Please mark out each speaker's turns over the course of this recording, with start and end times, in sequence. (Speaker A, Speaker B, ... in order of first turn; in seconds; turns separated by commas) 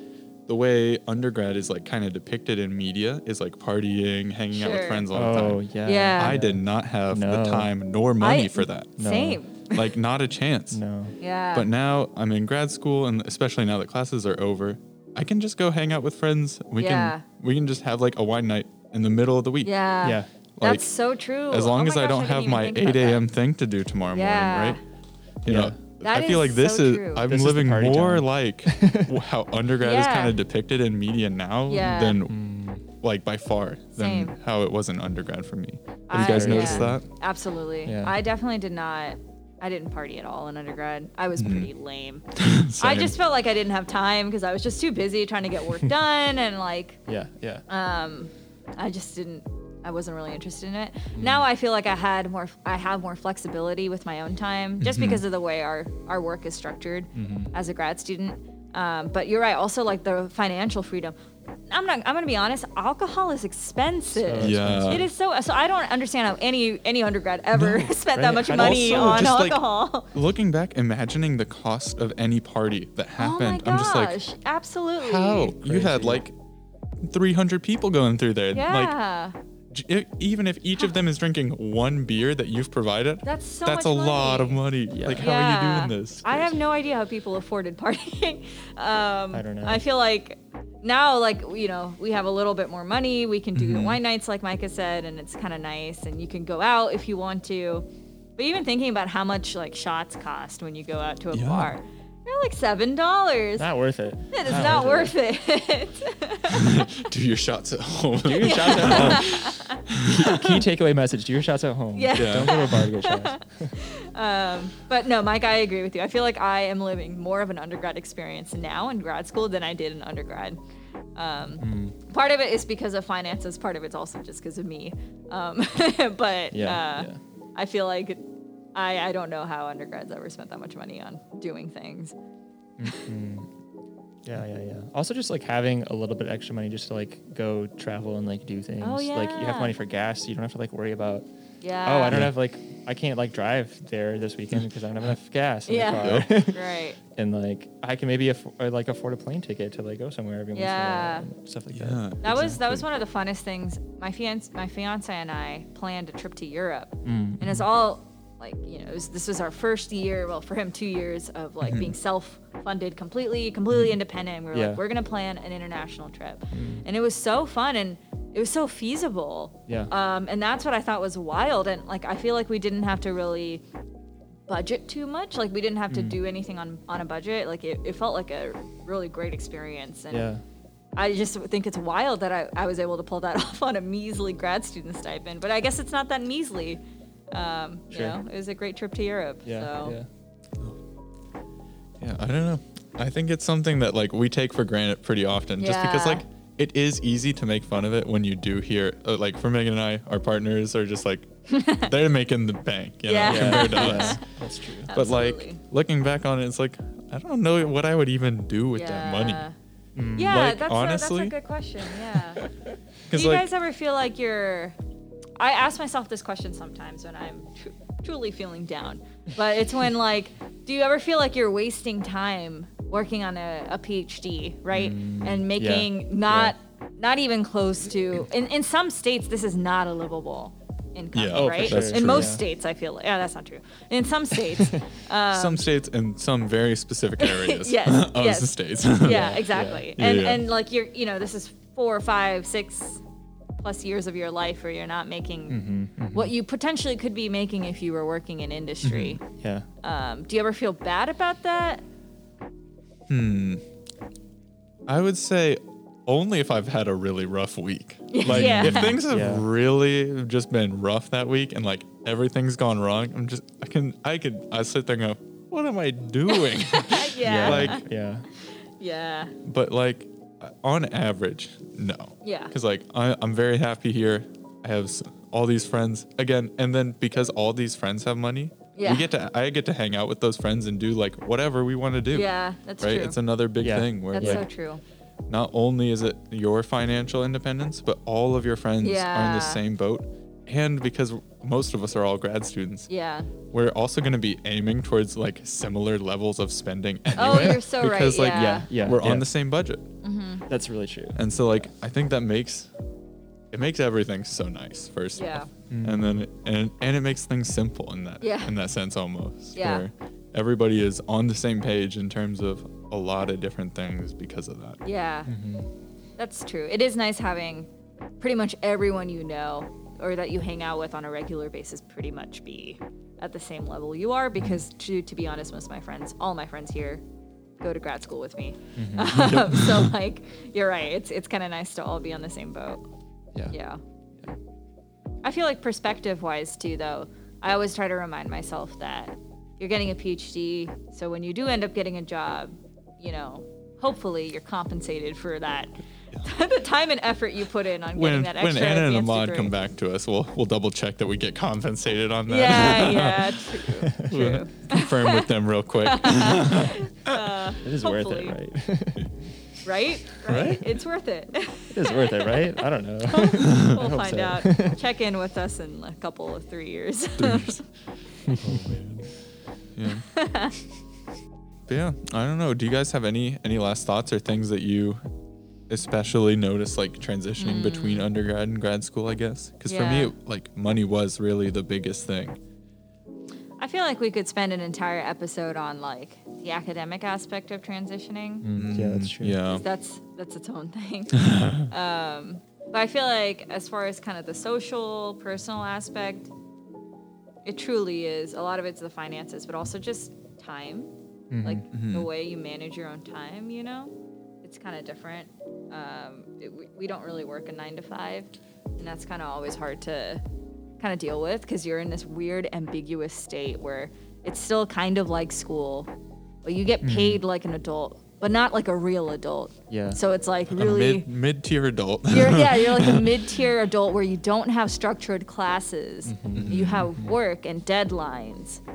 Speaker A: 0.5-5.6, Speaker B: 4.5-5.1, Speaker C: 5.1-7.7, Speaker B: 5.8-6.4, Speaker A: 6.2-8.9, Speaker B: 8.2-9.9, Speaker C: 9.0-9.4, Speaker A: 9.7-10.8, Speaker C: 10.7-11.2, Speaker B: 11.2-11.7, Speaker A: 11.5-19.7, Speaker B: 16.8-17.2, Speaker B: 19.6-23.2, Speaker C: 20.0-20.3, Speaker A: 20.6-20.9, Speaker A: 21.5-24.8, Speaker B: 24.1-24.8, Speaker A: 25.4-32.4, Speaker C: 25.5-25.8, Speaker B: 26.0-27.2, Speaker C: 27.3-29.2, Speaker B: 29.8-30.4, Speaker B: 31.7-32.2, Speaker C: 32.3-32.8, Speaker A: 33.0-37.1, Speaker B: 34.0-34.4, Speaker B: 36.1-42.2, Speaker C: 36.1-37.0, Speaker C: 37.9-38.2, Speaker A: 41.4-41.7, Speaker A: 42.4-43.1, Speaker B: 42.8-47.0, Speaker C: 47.1-47.6, Speaker B: 47.7-61.1, Speaker C: 51.1-51.5, Speaker A: 54.8-55.2, Speaker C: 57.1-57.5, Speaker B: 61.7-70.1, Speaker C: 64.1-65.1, Speaker A: 64.4-65.1, Speaker C: 67.6-69.4, Speaker A: 68.5-74.2, Speaker B: 73.2-75.5, Speaker A: 75.0-76.3, Speaker C: 75.6-76.2, Speaker A: 77.0-78.9, Speaker B: 78.5-79.3, Speaker A: 79.7-86.5, Speaker B: 83.2-103.7, Speaker C: 84.9-85.3, Speaker C: 89.3-89.8, Speaker A: 93.5-94.0, Speaker A: 101.3-101.7, Speaker C: 103.6-105.2, Speaker B: 104.3-106.9, Speaker A: 106.5-110.6, Speaker C: 108.2-109.3, Speaker B: 108.4-109.8, Speaker C: 110.1-113.7, Speaker B: 111.9-120.6, Speaker A: 112.1-112.8, Speaker B: 121.2-128.2, Speaker C: 121.6-122.0, Speaker C: 126.5-127.2, Speaker B: 128.8-132.2, Speaker C: 132.8-133.5, Speaker C: 134.2-141.3, Speaker B: 138.8-139.7, Speaker B: 141.6-142.2, Speaker C: 141.8-152.8, Speaker B: 145.7-147.0, Speaker A: 146.0-146.3, Speaker B: 150.5-151.3, Speaker A: 151.7-152.6, Speaker B: 152.2-173.6, Speaker C: 157.1-157.7, Speaker A: 161.6-161.9, Speaker C: 164.5-164.8, Speaker C: 166.5-166.8, Speaker B: 174.5-180.3, Speaker C: 175.9-176.2, Speaker C: 180.1-180.4, Speaker B: 181.0-190.0, Speaker C: 187.9-188.2, Speaker C: 189.4-190.1, Speaker A: 192.0-204.2, Speaker B: 195.6-196.2, Speaker B: 201.5-201.9, Speaker B: 203.1-204.2, Speaker C: 203.2-205.0, Speaker B: 204.9-205.6, Speaker A: 204.9-209.4, Speaker B: 208.8-209.6, Speaker C: 210.0-210.4, Speaker A: 210.2-211.4, Speaker B: 210.2-212.5, Speaker A: 213.1-213.5, Speaker B: 213.1-214.8, Speaker B: 215.4-235.7, Speaker C: 224.7-226.5, Speaker A: 231.1-232.4, Speaker C: 231.3-232.4, Speaker A: 235.3-239.4, Speaker B: 237.2-243.0, Speaker C: 239.0-239.9, Speaker A: 240.0-240.4, Speaker B: 243.6-249.2, Speaker C: 245.5-246.3, Speaker A: 248.8-249.2, Speaker C: 249.4-249.7, Speaker B: 249.8-251.8, Speaker A: 253.1-253.6, Speaker A: 254.9-267.8, Speaker B: 258.1-259.0, Speaker C: 258.3-259.5, Speaker B: 266.3-267.8, Speaker C: 267.2-268.3, Speaker B: 268.4-269.4, Speaker A: 269.4-282.3, Speaker B: 272.2-272.5, Speaker B: 278.8-279.1, Speaker B: 282.1-283.2, Speaker A: 282.8-284.5, Speaker C: 283.6-284.4, Speaker B: 284.1-284.8, Speaker A: 285.3-292.9, Speaker B: 288.8-289.6, Speaker B: 292.9-293.3, Speaker A: 293.5-299.9, Speaker B: 297.2-298.7, Speaker C: 298.3-299.3, Speaker B: 300.0-300.4, Speaker C: 300.5-301.2, Speaker A: 301.1-302.7, Speaker A: 303.5-314.8, Speaker B: 305.2-305.5, Speaker C: 305.7-306.2, Speaker B: 308.2-308.5, Speaker B: 309.6-309.9, Speaker B: 314.8-315.3, Speaker C: 315.3-315.7, Speaker B: 316.2-317.7, Speaker B: 318.2-327.0, Speaker B: 327.6-332.9, Speaker C: 328.8-329.4, Speaker A: 329.2-329.9, Speaker B: 333.5-333.8, Speaker B: 335.2-349.5, Speaker A: 347.9-357.3, Speaker B: 352.3-355.3, Speaker C: 353.9-354.1, Speaker B: 355.8-358.4, Speaker C: 357.6-359.1, Speaker B: 359.6-367.6, Speaker A: 360.2-360.7, Speaker C: 361.7-364.8, Speaker A: 363.4-363.8, Speaker A: 367.2-367.6, Speaker C: 368.3-368.8, Speaker A: 368.4-369.1, Speaker A: 369.8-370.1, Speaker B: 370.1-370.6, Speaker A: 371.7-375.0, Speaker A: 375.7-382.4, Speaker B: 377.4-378.1, Speaker B: 379.7-380.1, Speaker B: 383.6-388.5, Speaker C: 388.4-389.4, Speaker A: 388.6-389.6, Speaker B: 389.5-396.3, Speaker A: 391.2-391.7, Speaker B: 397.4-400.9, Speaker C: 401.3-401.6, Speaker B: 401.4-410.2, Speaker A: 401.7-402.1, Speaker B: 410.8-415.9, Speaker B: 416.4-421.1, Speaker C: 416.8-417.2, Speaker C: 419.7-420.0, Speaker A: 420.5-423.2, Speaker B: 422.1-428.6, Speaker C: 426.1-427.2, Speaker A: 426.4-426.9